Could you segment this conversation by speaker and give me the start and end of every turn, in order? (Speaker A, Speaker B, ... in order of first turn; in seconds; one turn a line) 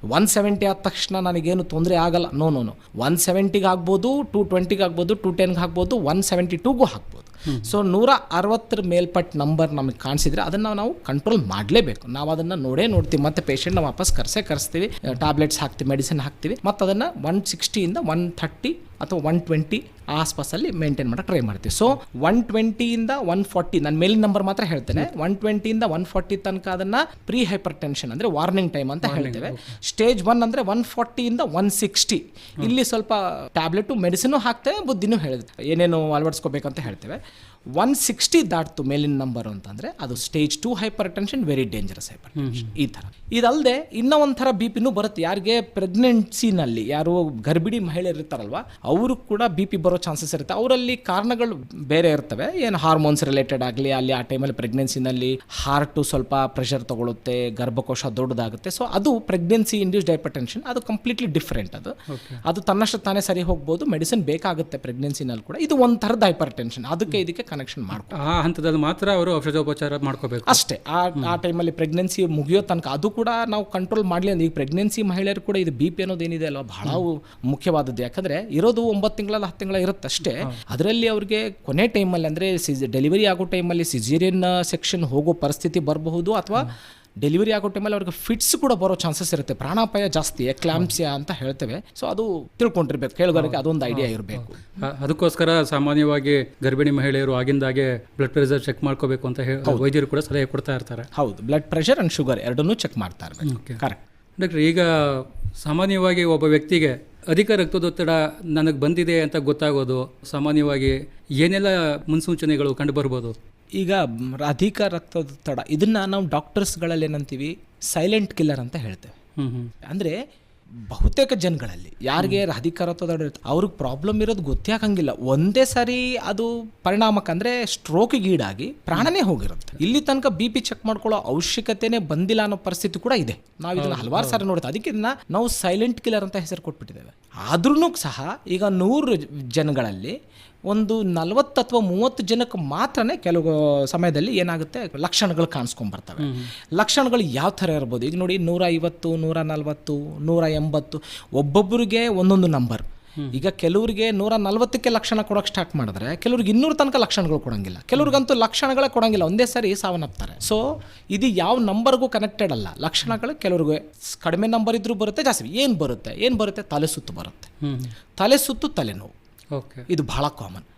Speaker A: 0.1-37.2
Speaker B: 7.5-7.7
Speaker B: 29.0-29.7
Speaker A: 37.8-61.9
Speaker B: 42.4-42.7
Speaker B: 62.1-62.4
Speaker A: 62.4-68.2
Speaker B: 68.1-70.6
Speaker A: 70.5-94.6
Speaker B: 93.3-101.1
Speaker A: 101.1-104.0
Speaker B: 103.4-103.8
Speaker B: 104.4-113.3
Speaker A: 113.8-119.1
Speaker B: 119.4-119.7
Speaker A: 119.8-120.2
Speaker A: 120.9-140.2
Speaker B: 133.8-134.4
Speaker A: 140.7-167.5
Speaker B: 146.2-146.5
Speaker B: 167.6-167.9
Speaker A: 168.2-169.1
Speaker B: 169.5-169.8
Speaker A: 169.9-170.7